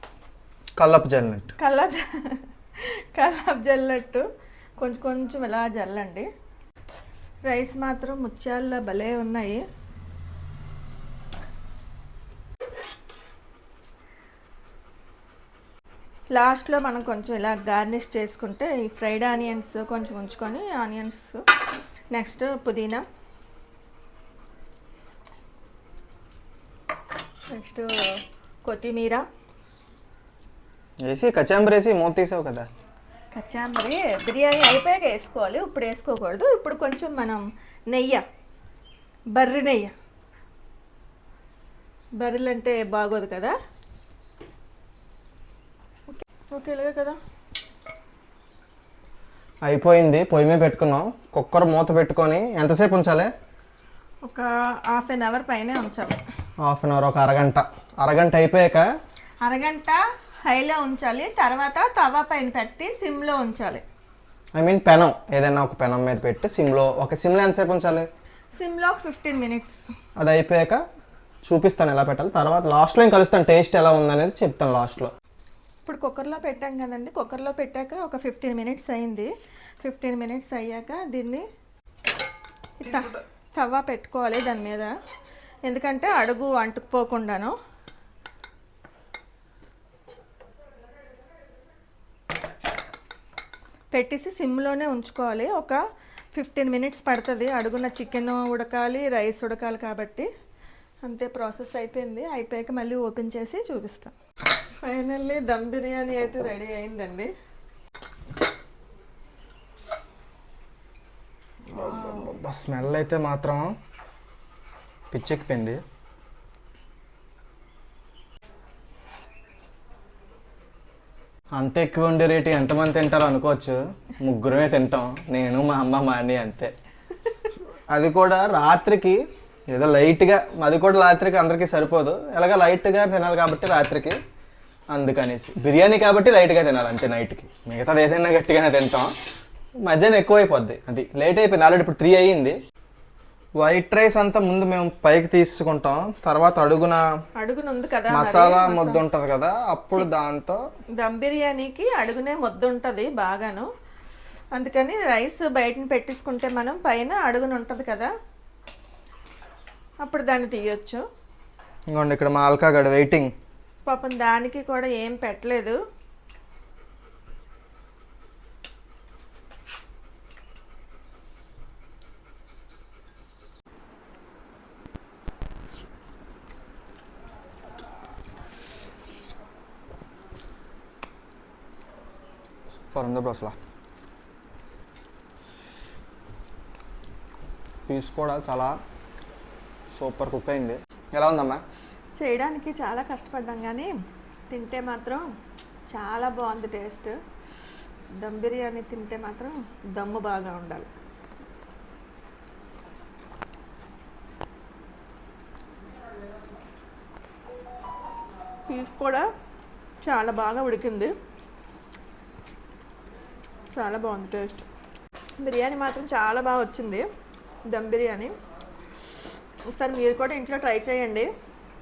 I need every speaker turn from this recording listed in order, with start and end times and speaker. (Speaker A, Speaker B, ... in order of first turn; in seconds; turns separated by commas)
Speaker A: 0.8-1.5, Speaker B: 1.6-4.2, Speaker B: 4.8-6.3, Speaker B: 7.4-9.6, Speaker B: 16.3-21.4, Speaker B: 22.1-23.0, Speaker B: 27.5-29.2, Speaker A: 31.1-32.6, Speaker B: 33.3-38.2, Speaker B: 39.3-39.9, Speaker B: 42.2-43.5, Speaker B: 46.1-47.2, Speaker A: 49.7-53.3, Speaker B: 54.2-56.2, Speaker A: 56.6-58.8, Speaker B: 59.4-63.8, Speaker A: 64.6-68.1, Speaker B: 68.6-69.8, Speaker A: 70.2-70.8, Speaker A: 71.5-75.1, Speaker B: 75.8-79.3, Speaker B: 79.8-81.4, Speaker B: 82.8-84.9, Speaker A: 82.9-83.2, Speaker B: 85.6-87.5, Speaker B: 93.9-95.8, Speaker B: 96.3-100.3, Speaker B: 101.0-107.3, Speaker B: 111.7-112.3, Speaker A: 111.7-113.7, Speaker A: 115.1-115.8, Speaker A: 121.5-126.7, Speaker A: 127.9-129.2, Speaker A: 129.7-134.2, Speaker A: 134.9-139.1, Speaker A: 139.8-142.5, Speaker A: 143.6-147.0, Speaker B: 147.4-149.0, Speaker A: 148.1-150.6, Speaker B: 151.0-153.7, Speaker B: 154.5-158.1, Speaker B: 160.0-161.0, Speaker A: 161.9-163.3, Speaker B: 163.8-165.8, Speaker A: 182.9-183.5, Speaker A: 187.9-188.7, Speaker A: 189.9-191.6, Speaker B: 192.2-193.9, Speaker B: 194.5-195.2, Speaker B: 195.9-197.1, Speaker B: 198.2-200.9, Speaker B: 208.7-209.3, Speaker B: 210.0-211.1, Speaker B: 213.7-214.7, Speaker B: 215.4-217.0, Speaker B: 217.7-218.3, Speaker B: 219.7-221.3